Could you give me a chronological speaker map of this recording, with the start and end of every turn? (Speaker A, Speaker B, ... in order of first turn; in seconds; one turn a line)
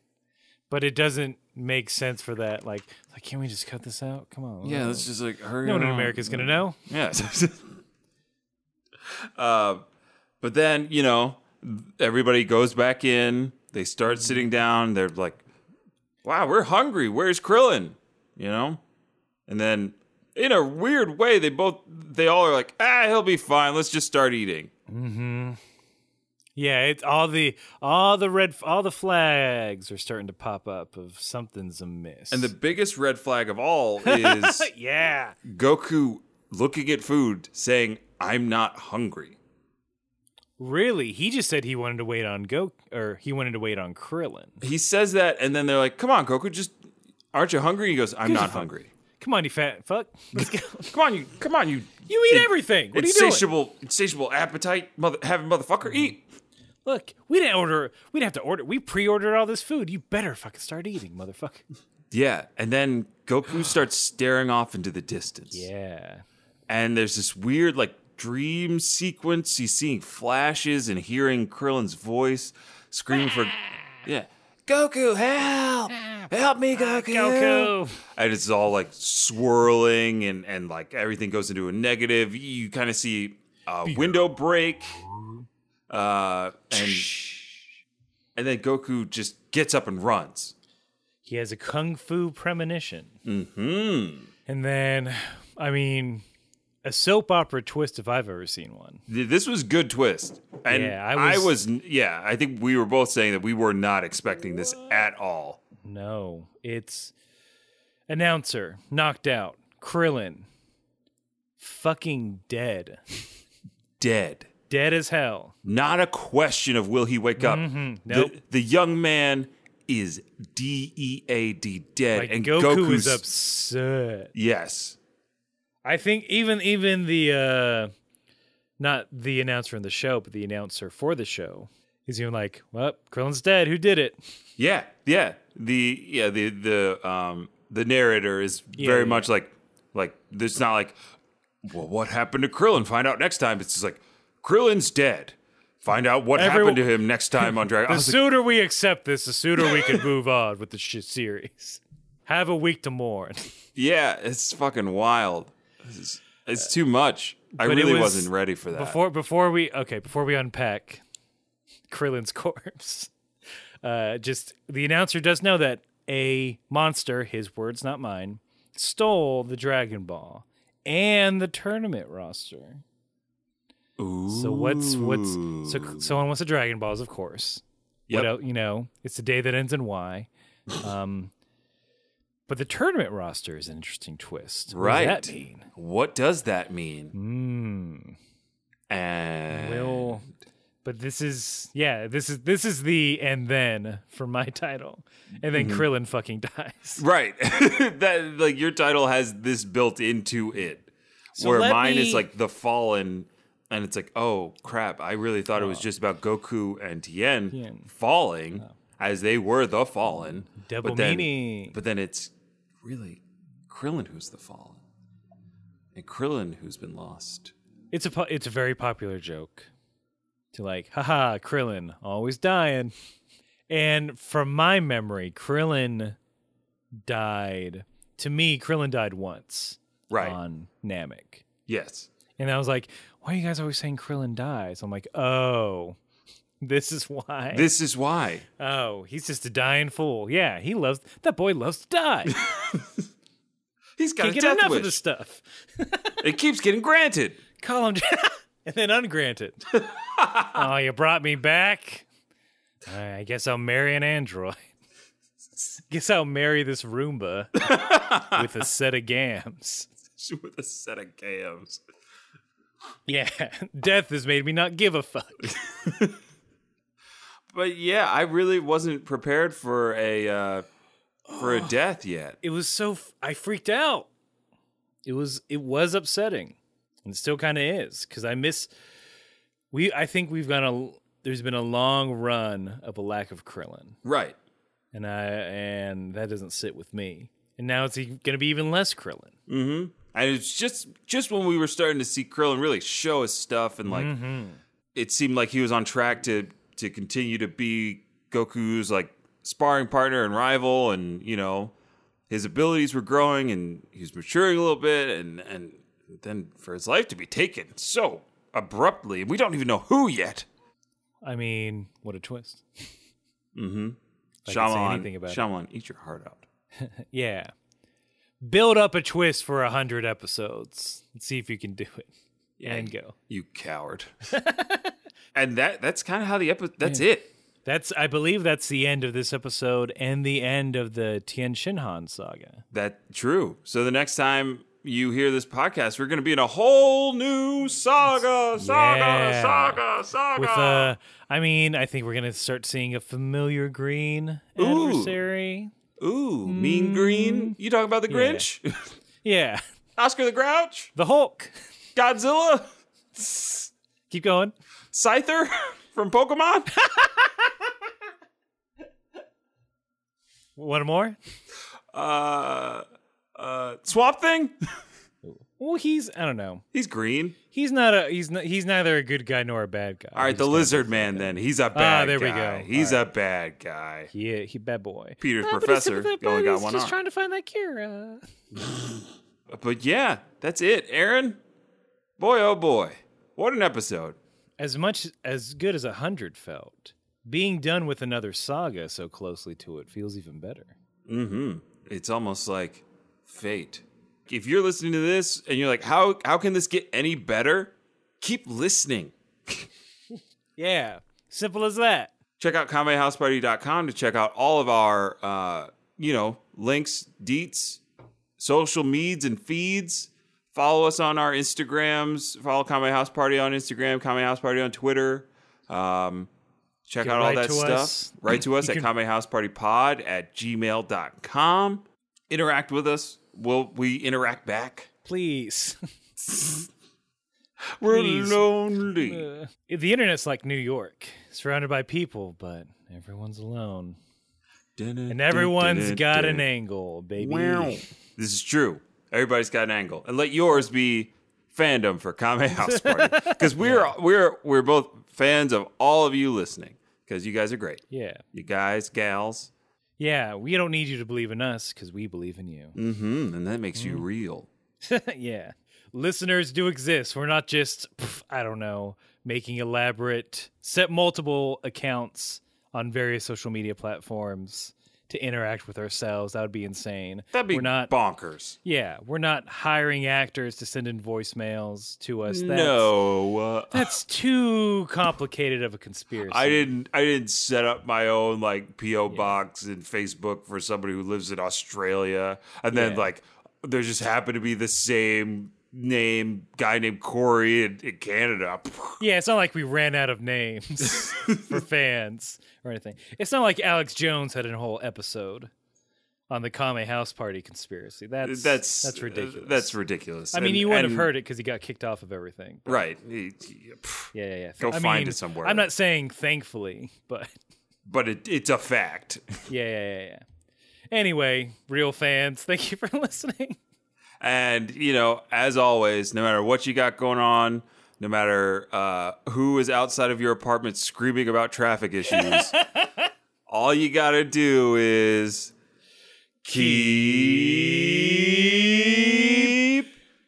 Speaker A: 0.7-5.1
Speaker B: 4.6-7.8
Speaker A: 5.6-6.8
Speaker B: 9.1-9.8
Speaker B: 10.4-15.4
Speaker B: 16.2-18.8
Speaker B: 19.5-24.7
Speaker A: 24.9-25.6
Speaker A: 26.6-32.5
Speaker B: 32.3-34.7
Speaker A: 34.0-35.4
Speaker B: 35.4-39.4
Speaker A: 40.6-44.6
Speaker B: 44.6-46.8
Speaker B: 47.3-48.9
Speaker A: 48.2-48.7
Speaker A: 49.2-50.9
Speaker B: 50.4-56.2
Speaker A: 52.1-53.5
Speaker A: 56.8-61.6
Speaker B: 62.1-65.7
Speaker A: 65.5-66.2
Speaker B: 66.7-85.0
Speaker A: 76.0-78.0
Speaker B: 85.9-87.1
Speaker A: 86.7-87.6
Speaker B: 88.3-90.5
Speaker A: 91.2-93.1
Speaker B: 93.2-94.3
Speaker A: 94.5-96.2
Speaker A: 96.8-99.0
Speaker B: 99.1-105.6
Speaker A: 100.7-101.5
Speaker A: 105.8-107.1
Speaker A: 108.1-110.5
Speaker A: 111.6-113.2
Speaker B: 114.0-114.5
Speaker A: 114.7-115.5
Speaker B: 115.6-123.2
Speaker A: 117.4-118.4
Speaker A: 122.1-124.3
Speaker B: 124.3-125.0
Speaker A: 125.8-127.9
Speaker A: 128.8-134.2
Speaker B: 134.6-141.0
Speaker A: 138.8-139.3
Speaker B: 141.6-148.3
Speaker A: 146.3-153.5
Speaker B: 149.6-150.0
Speaker B: 153.7-159.0
Speaker A: 157.6-161.0
Speaker A: 161.9-163.1
Speaker A: 163.8-172.8
Speaker B: 174.0-176.1
Speaker A: 174.3-181.3
Speaker A: 182.5-185.7
Speaker B: 184.7-187.1
Speaker A: 187.1-188.2
Speaker B: 188.9-190.2
Speaker A: 189.5-190.3
Speaker A: 190.8-197.0
Speaker B: 195.5-195.8
Speaker B: 197.0-214.8
Speaker A: 201.4-202.2
Speaker A: 205.6-205.8
Speaker A: 207.5-207.9
Speaker A: 210.6-211.8
Speaker B: 215.9-217.5
Speaker A: 217.9-219.7
Speaker A: 220.5-222.9
Speaker A: 223.7-226.2
Speaker A: 227.0-231.4
Speaker B: 230.1-230.4
Speaker B: 231.7-232.1
Speaker A: 232.4-236.0
Speaker A: 236.6-237.7
Speaker B: 237.5-238.4
Speaker A: 238.6-242.4
Speaker B: 242.3-243.0
Speaker B: 244.0-245.0
Speaker A: 244.2-246.2
Speaker B: 246.2-247.4
Speaker A: 247.6-252.1
Speaker B: 250.2-250.6
Speaker A: 252.8-254.7
Speaker A: 255.9-259.9
Speaker B: 257.6-258.5
Speaker B: 260.1-261.8
Speaker A: 263.1-265.6
Speaker B: 265.6-266.2
Speaker B: 267.5-270.6
Speaker A: 271.3-271.7
Speaker B: 271.4-272.4
Speaker A: 272.4-274.1
Speaker A: 275.0-278.7
Speaker A: 279.7-284.0
Speaker B: 284.0-284.4
Speaker A: 284.9-289.3
Speaker B: 289.5-294.1
Speaker A: 293.9-294.6
Speaker B: 294.9-301.7
Speaker B: 302.3-310.5
Speaker A: 311.2-312.9
Speaker B: 313.5-316.4
Speaker A: 314.5-315.4
Speaker A: 316.8-317.5
Speaker A: 318.4-322.1
Speaker B: 322.6-324.1
Speaker A: 322.6-323.1
Speaker A: 324.3-324.9
Speaker B: 325.3-327.3
Speaker A: 327.6-332.6
Speaker B: 332.7-340.9
Speaker A: 338.6-339.8
Speaker A: 340.4-345.7
Speaker B: 344.6-345.2
Speaker B: 346.0-348.9
Speaker A: 346.4-347.6
Speaker A: 348.1-348.4
Speaker A: 349.2-349.6
Speaker B: 350.0-350.9
Speaker A: 350.9-351.5
Speaker B: 351.9-352.7
Speaker A: 353.1-354.5
Speaker B: 354.9-356.7
Speaker A: 356.8-357.5
Speaker A: 360.6-361.2
Speaker B: 361.9-364.5
Speaker A: 365.2-366.6
Speaker B: 366.7-367.4
Speaker A: 367.5-373.0
Speaker B: 370.1-374.1
Speaker A: 374.1-378.3
Speaker B: 375.2-376.9
Speaker B: 379.5-381.4
Speaker B: 382.2-384.2
Speaker A: 384.6-390.7
Speaker B: 391.1-399.7
Speaker A: 400.6-402.1
Speaker B: 402.4-407.8
Speaker B: 408.4-416.3
Speaker B: 416.9-424.9
Speaker A: 417.0-418.9
Speaker A: 425.0-425.8
Speaker B: 427.8-429.3
Speaker A: 427.8-428.4
Speaker A: 429.0-434.0
Speaker B: 434.8-436.4
Speaker A: 435.1-437.9
Speaker B: 437.2-449.5
Speaker A: 442.7-443.9
Speaker A: 447.9-448.2
Speaker A: 450.0-452.8
Speaker B: 452.7-454.5
Speaker A: 453.8-454.0
Speaker A: 454.8-467.9
Speaker B: 467.3-468.6
Speaker A: 468.6-472.9
Speaker B: 472.3-473.9
Speaker A: 473.7-476.7
Speaker B: 476.3-489.0
Speaker A: 482.7-483.1
Speaker A: 489.0-495.5
Speaker B: 490.8-491.6
Speaker A: 496.3-499.8
Speaker B: 498.2-501.1
Speaker A: 500.3-502.8
Speaker B: 502.6-505.7
Speaker A: 504.1-507.3
Speaker B: 507.8-509.2
Speaker A: 509.5-510.2
Speaker A: 510.9-513.6
Speaker B: 514.2-522.5
Speaker A: 522.2-522.9
Speaker B: 523.5-525.5
Speaker B: 526.4-529.9
Speaker A: 526.5-527.7